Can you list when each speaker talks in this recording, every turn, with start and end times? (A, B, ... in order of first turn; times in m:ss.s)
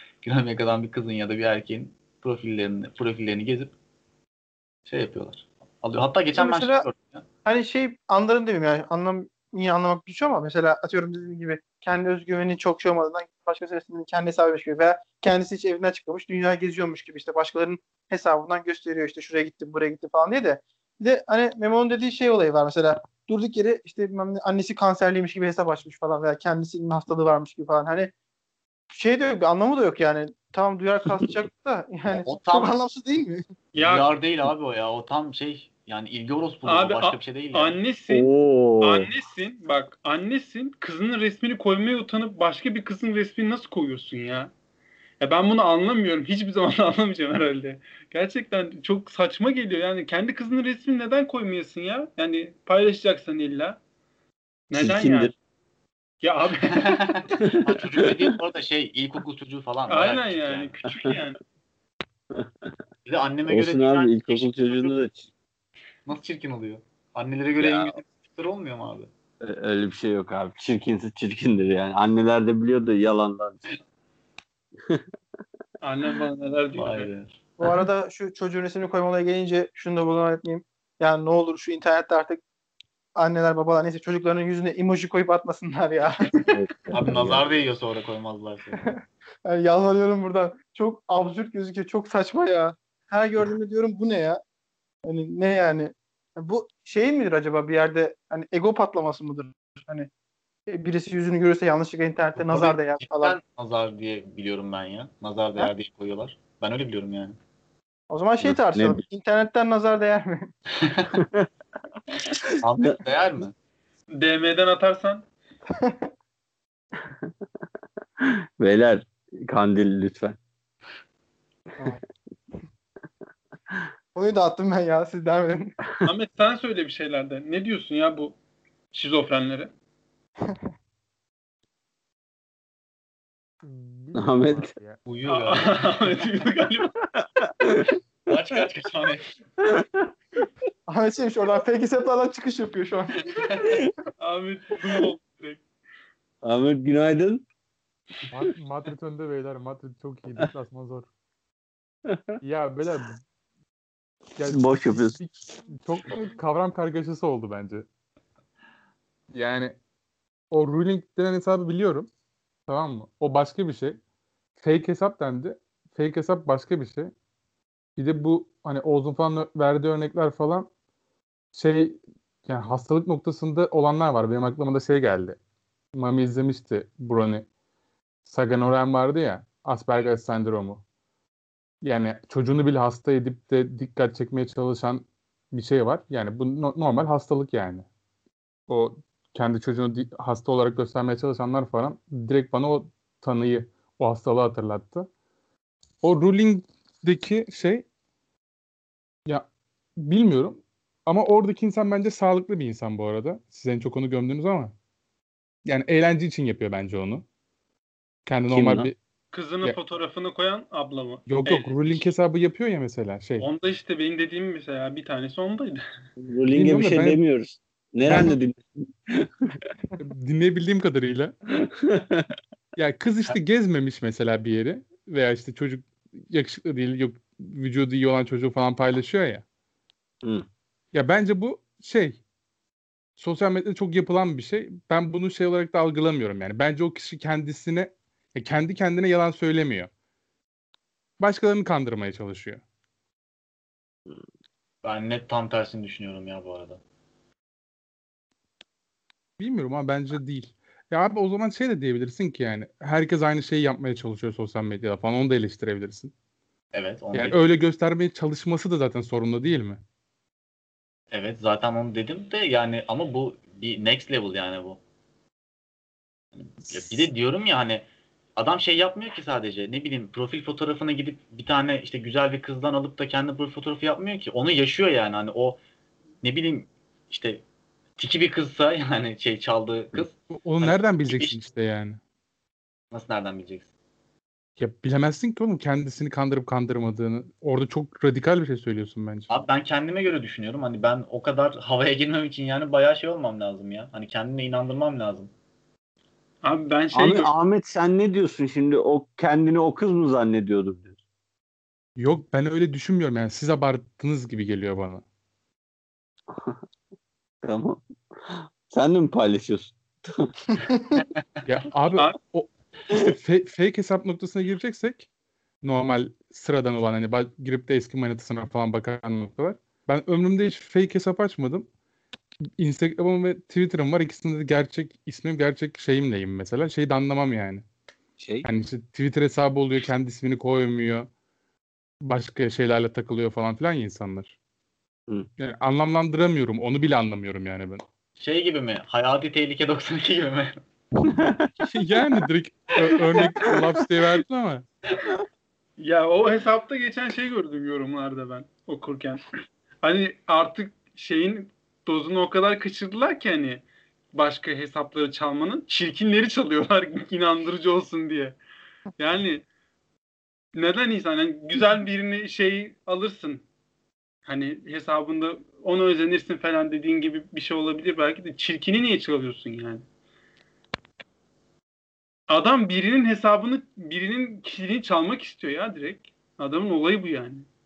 0:00.2-0:03.7 A
0:04.9-0:07.2 A
0:06.3-0:06.8 B
0:07.4-0:28.1 B
0:28.9-0:33.4 B
0:32.1-0:32.7 A
0:33.8-0:34.1 C
0:33.8-0:37.8 A
0:36.6-0:38.3 C
0:38.1-0:39.1 D
0:38.8-0:44.5 C
0:45.2-0:53.8 C
0:54.7-0:55.3 C
0:54.7-0:55.3 D
0:56.2-0:57.0 C
0:56.7-1:00.7 A
0:57.4-0:58.1 D
0:59.9-1:01.4 C
1:02.3-1:02.7 D
1:03.0-1:05.0 A
1:03.5-1:05.3 D
1:06.0-1:09.1 A
1:07.6-1:08.0 D
1:09.4-1:13.8 D
1:15.8-1:17.1 C
1:16.8-1:17.3 A
1:17.6-1:22.4 B
1:23.2-1:26.3 B
1:26.5-1:27.4 D
1:26.9-1:28.8 A
1:28.8-1:34.4 B
1:35.0-1:40.1 B
1:40.7-1:43.4 B
1:42.4-1:47.3 A
1:48.1-1:50.5 B
1:48.4-1:49.0 D
1:50.8-1:51.1 A
1:51.1-1:51.5 D
1:52.5-1:53.0 D
1:52.6-1:53.5 A
1:54.2-1:55.2 C
1:55.7-1:56.1 B
1:58.2-2:00.4 D
2:04.1-2:05.7 B
2:06.0-2:08.4 C
2:08.9-2:09.7 C
2:13.6-2:15.0 E
2:14.1-2:14.7 D
2:15.0-2:16.0 A
2:15.2-2:16.9 C
2:17.4-2:17.8 D
2:18.3-2:19.3 A
2:19.6-2:20.1 D
2:20.9-2:23.2 B
2:23.4-2:23.8 A
2:24.2-2:25.6 C
2:26.4-2:27.4 D
2:28.3-2:31.1 E
2:32.1-2:32.4 D
2:32.4-2:33.2 E
2:34.4-2:37.8 E
2:34.5-2:35.2 D
2:39.3-2:39.8 E
2:40.5-2:42.1 E
2:42.7-2:44.0 E
2:44.6-2:47.1 E
2:48.0-2:50.7 E
2:51.5-2:55.4 E
2:55.9-2:57.4 E
2:58.2-3:00.8 E
3:01.8-3:07.8 E
3:08.7-3:15.1 E
3:16.0-3:17.8 E
3:19.2-3:24.7 E
3:25.6-3:27.2 E
3:28.2-3:29.0 E
3:28.5-3:28.9 D
3:29.3-3:32.2 C
3:31.2-3:33.5 E
3:33.4-3:35.8 C
3:36.2-3:39.6 D
3:36.5-3:37.2 E
3:38.0-3:38.4 E
3:40.0-3:41.3 E
3:41.5-3:42.3 D
3:42.7-3:49.4 E
3:50.9-3:52.2 E
3:53.2-3:59.9 E
4:01.2-4:02.6 E
4:04.8-4:06.8 A
4:09.4-4:16.1 E
4:16.7-4:17.4 A
4:17.1-4:19.8 E
4:21.1-4:24.8 A
4:26.3-4:35.6 A
4:36.2-4:37.4 A
4:38.0-4:41.4 A
4:40.3-4:42.0 E
4:42.9-4:43.7 A
4:44.6-4:49.3 E
4:49.3-4:55.3 A
4:56.4-4:57.3 C
4:56.9-5:01.0 D
5:02.0-5:05.0 E
5:06.3-5:06.6 D
5:07.4-5:10.3 D
5:11.4-5:15.1 E
5:15.6-5:21.7 E
5:22.6-5:27.6 E
5:28.2-5:28.4 D
5:28.4-5:31.1 E
5:32.0-5:34.3 E
5:35.4-5:37.8 E
5:38.2-5:40.6 A
5:41.1-5:41.5 D
5:41.6-5:44.6 E
5:45.8-5:49.2 C
5:49.8-5:58.4 C
5:59.0-5:59.4 C
6:00.5-6:03.4 C
6:04.2-6:09.8 C
6:12.3-6:17.5 C